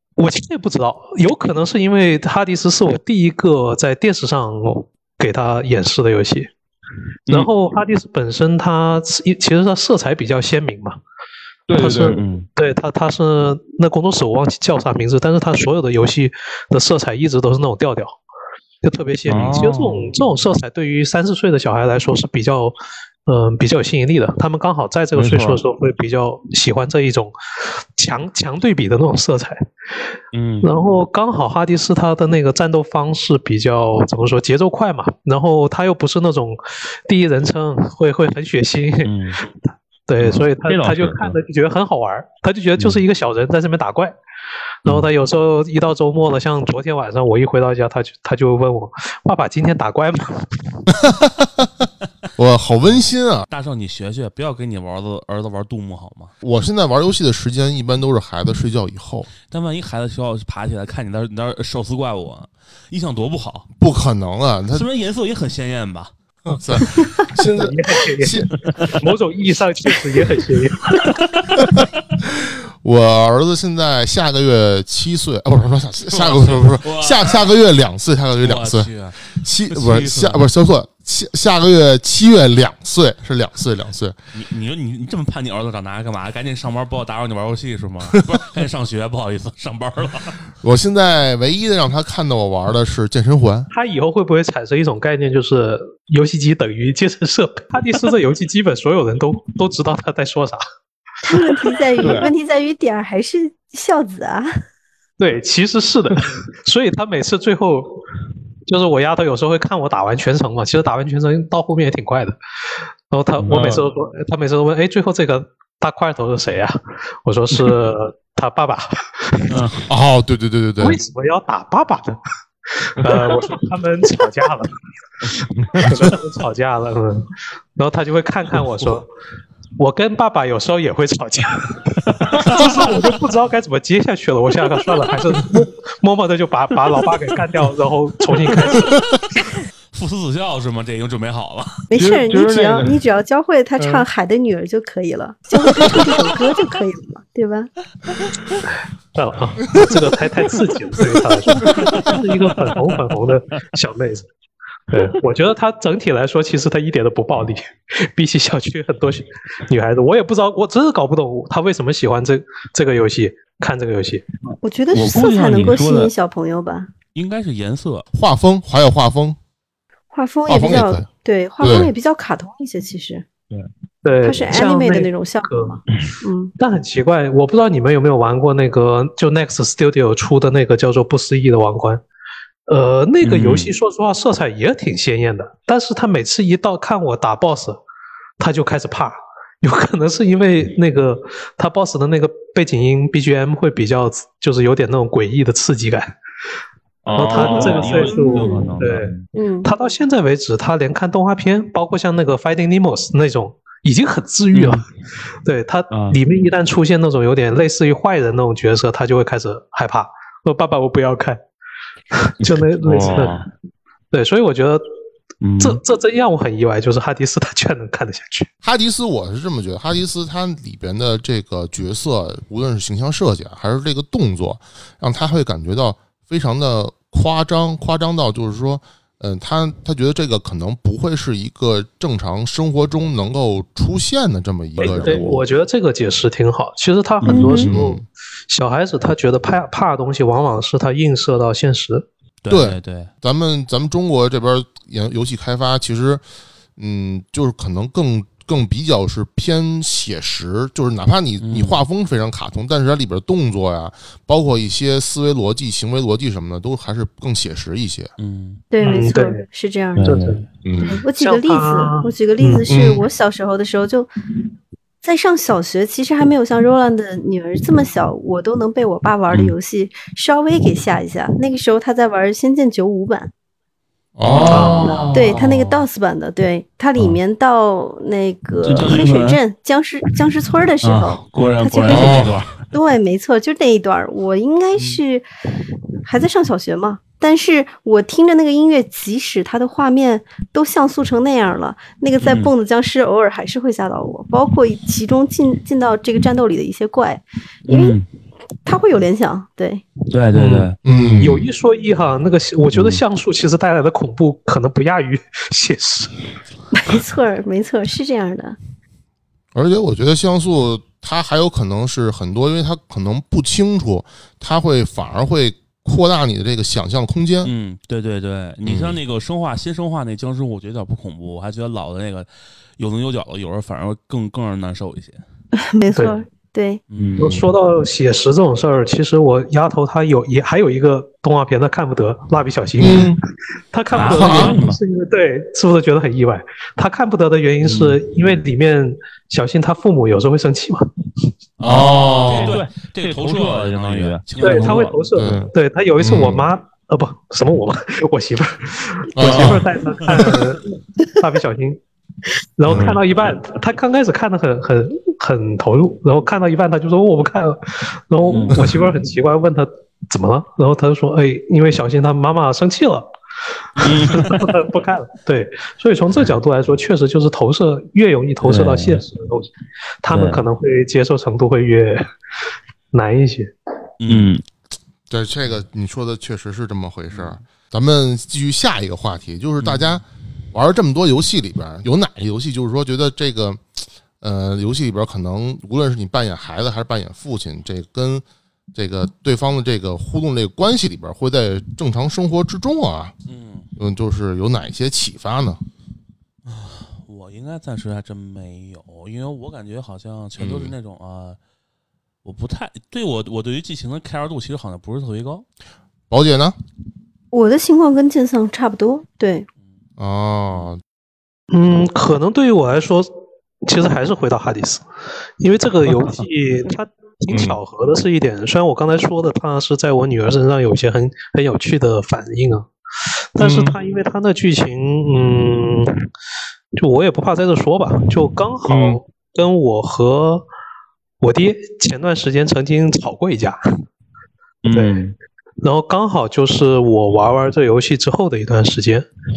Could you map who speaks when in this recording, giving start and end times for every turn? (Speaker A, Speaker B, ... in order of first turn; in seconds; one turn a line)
Speaker A: 0.2-6.5
Speaker A: 7.3-11.0
Speaker B: 11.7-12.2
Speaker A: 11.8-18.2
Speaker C: 12.0-12.4
Speaker A: 18.8-22.8
Speaker B: 19.3-20.0
Speaker C: 19.3-19.8
Speaker A: 23.3-27.4
Speaker B: 25.1-25.6
Speaker A: 28.0-29.7
Speaker C: 30.3-30.7
Speaker A: 30.6-44.2
Speaker C: 39.0-39.4
Speaker B: 40.2-41.4
Speaker A: 44.9-50.8
Speaker D: 51.0-51.7
Speaker D: 52.4-53.5
Speaker C: 53.5-56.3
Speaker D: 56.4-59.3
Speaker C: 59.5-63.7
Speaker D: 63.8-64.8
Speaker C: 64.7-66.1
Speaker D: 66.5-68.5
Speaker A: 67.4-71.2
Speaker D: 71.6-84.2
Speaker C: 76.1-77.4
Speaker C: 78.4-80.5
Speaker C: 84.3-90.4
Speaker D: 90.6-93.7
Speaker A: 93.7-100.6
Speaker E: 101.2-104.5
Speaker A: 101.3-102.2
Speaker B: 102.0-102.3
Speaker A: 105.2-108.0
Speaker A: 108.7-112.4
Speaker A: 113.1-119.8
Speaker B: 113.5-113.8
Speaker C: 113.5-113.8
Speaker D: 119.9-121.0
Speaker A: 120.8-129.1
Speaker B: 123.1-123.4
Speaker B: 125.6-126.1
Speaker A: 129.8-139.0
Speaker B: 132.2-132.9
Speaker C: 139.9-141.8
Speaker E: 141.9-147.7
Speaker B: 141.9-143.0
Speaker B: 143.8-144.1
Speaker A: 148.7-154.3
Speaker A: 154.9-164.2
Speaker E: 164.6-166.9
Speaker C: 164.9-166.1
Speaker C: 167.2-168.1
Speaker D: 168.1-169.4
Speaker E: 170.1-173.2
Speaker D: 170.5-171.1
Speaker D: 171.6-171.9
Speaker A: 174.0-175.8
Speaker E: 174.2-176.5
Speaker A: 176.6-182.0
Speaker A: 182.7-187.8
Speaker C: 183.2-183.7
Speaker A: 188.4-196.2
Speaker B: 197.1-199.3
Speaker A: 197.2-199.1
Speaker E: 197.3-198.7
Speaker C: 197.6-198.1
Speaker E: 199.3-199.7
Speaker A: 199.6-204.8
Speaker A: 205.4-211.4
Speaker B: 205.9-206.2
Speaker A: 212.1-213.4
Speaker B: 212.4-213.5
Speaker A: 214.1-214.8
Speaker B: 215.4-215.8
Speaker A: 215.6-218.5
Speaker D: 218.6-235.4
Speaker A: 234.8-242.1
Speaker B: 234.9-235.3
Speaker C: 237.2-237.6
Speaker E: 237.3-237.7
Speaker D: 237.7-238.0
Speaker C: 242.4-243.1
Speaker D: 242.5-246.2
Speaker D: 246.8-258.1
Speaker C: 251.4-251.8
Speaker C: 258.2-258.6
Speaker E: 258.7-260.2
Speaker A: 258.8-259.4
Speaker A: 260.0-260.4
Speaker B: 260.0-260.9
Speaker E: 260.8-264.1
Speaker A: 261.2-262.7
Speaker E: 265.0-273.3
Speaker D: 274.2-275.2
Speaker C: 274.2-275.5
Speaker A: 274.5-275.0
Speaker E: 275.1-285.3
Speaker C: 278.6-279.4
Speaker C: 280.8-282.6
Speaker D: 281.9-282.3
Speaker E: 286.1-298.0
Speaker C: 292.2-292.5
Speaker C: 297.7-298.1
Speaker E: 298.7-299.8
Speaker C: 300.1-300.8
Speaker A: 300.3-306.1
Speaker D: 300.9-301.4
Speaker C: 302.7-303.0
Speaker E: 306.7-308.6
Speaker D: 309.6-317.5
Speaker C: 317.4-325.2
Speaker D: 318.6-319.0
Speaker E: 325.6-326.8
Speaker A: 325.9-326.2
Speaker C: 326.9-327.4
Speaker A: 327.2-333.2
Speaker D: 332.8-333.2
Speaker A: 333.7-340.9
Speaker C: 333.9-334.8
Speaker D: 334.0-334.6
Speaker D: 341.6-342.6
Speaker C: 341.7-345.1
Speaker B: 341.8-344.9
Speaker A: 344.4-351.8
Speaker D: 345.2-346.5
Speaker D: 349.2-349.6
Speaker B: 349.3-349.6
Speaker A: 352.6-363.1
Speaker D: 352.7-353.0
Speaker C: 358.3-358.7
Speaker A: 363.8-369.5
Speaker C: 363.8-364.4
Speaker C: 368.4-369.0
Speaker A: 370.0-372.1
Speaker C: 370.1-370.4
Speaker A: 372.9-373.5
Speaker C: 374.0-374.4
Speaker D: 375.1-383.6
Speaker C: 377.1-377.4
Speaker C: 379.6-380.0
Speaker D: 384.2-393.1
Speaker C: 393.3-393.7
Speaker D: 393.8-395.6
Speaker C: 396.5-401.4
Speaker D: 400.4-400.7
Speaker C: 402.2-405.4
Speaker D: 406.1-406.6
Speaker E: 407.3-409.5
Speaker D: 410.0-410.8
Speaker A: 411.5-413.1
Speaker A: 413.6-414.9
Speaker A: 415.4-422.7
Speaker A: 423.4-425.9
Speaker B: 423.4-423.8
Speaker A: 426.8-430.5
Speaker B: 428.7-429.0
Speaker A: 431.2-433.6
Speaker B: 434.6-435.1
Speaker A: 434.7-435.0
Speaker A: 435.6-439.1